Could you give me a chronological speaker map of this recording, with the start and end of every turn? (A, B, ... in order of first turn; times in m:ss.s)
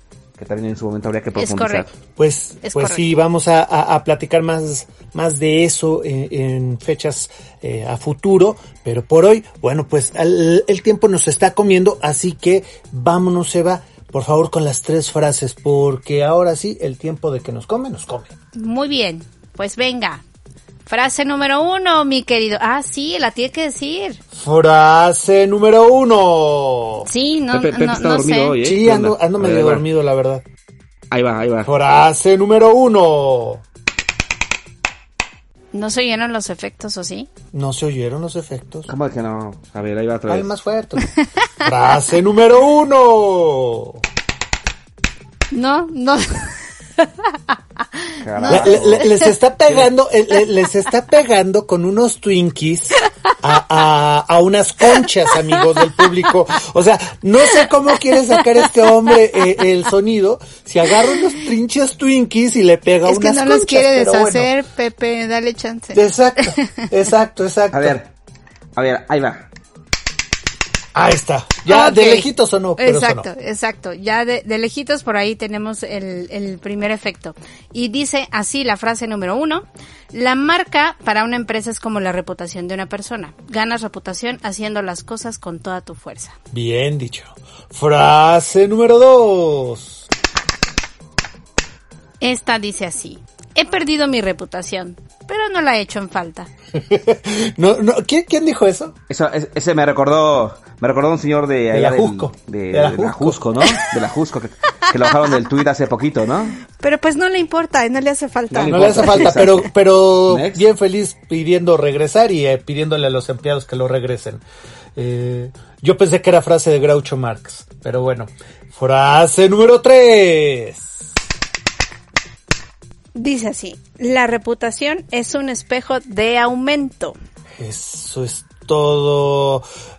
0:00.4-0:01.9 A
0:01.4-0:01.9 B
0:02.2-0:18.3 C
0:02.6-0:03.1 B
0:18.5-0:20.2 B
0:20.9-0:24.2 B
0:24.3-0:27.1 C
0:27.1-0:28.6 B
0:27.5-0:29.8 A
0:28.6-0:30.4 C
0:31.1-0:31.7 A
0:31.6-0:33.6 C
0:35.7-0:37.3 B
0:37.5-0:38.9 C
0:38.9-0:40.5 A
0:40.3-0:41.0 C
0:41.1-0:41.4 B
0:41.6-0:44.0 C
0:45.5-0:47.3 B
0:48.0-0:49.3 B
0:48.2-0:49.2 A
0:48.5-1:04.5 C
0:58.6-0:59.4 B
1:03.0-1:06.9 B
1:05.9-1:08.0 C
1:07.7-1:08.1 A
1:08.8-1:09.5 A
1:11.0-1:13.3 C
1:11.7-1:26.4 B
1:26.5-1:30.0 C
1:32.2-1:36.5 B
1:36.8-1:39.0 C
1:39.1-1:46.6 A
1:41.7-1:43.6 C
1:46.7-1:49.3 B
1:48.5-1:49.7 A
1:48.6-1:54.4 C
1:50.3-1:50.7 A
1:55.0-2:01.0 C
2:03.2-2:07.2 B
2:07.6-2:09.6 C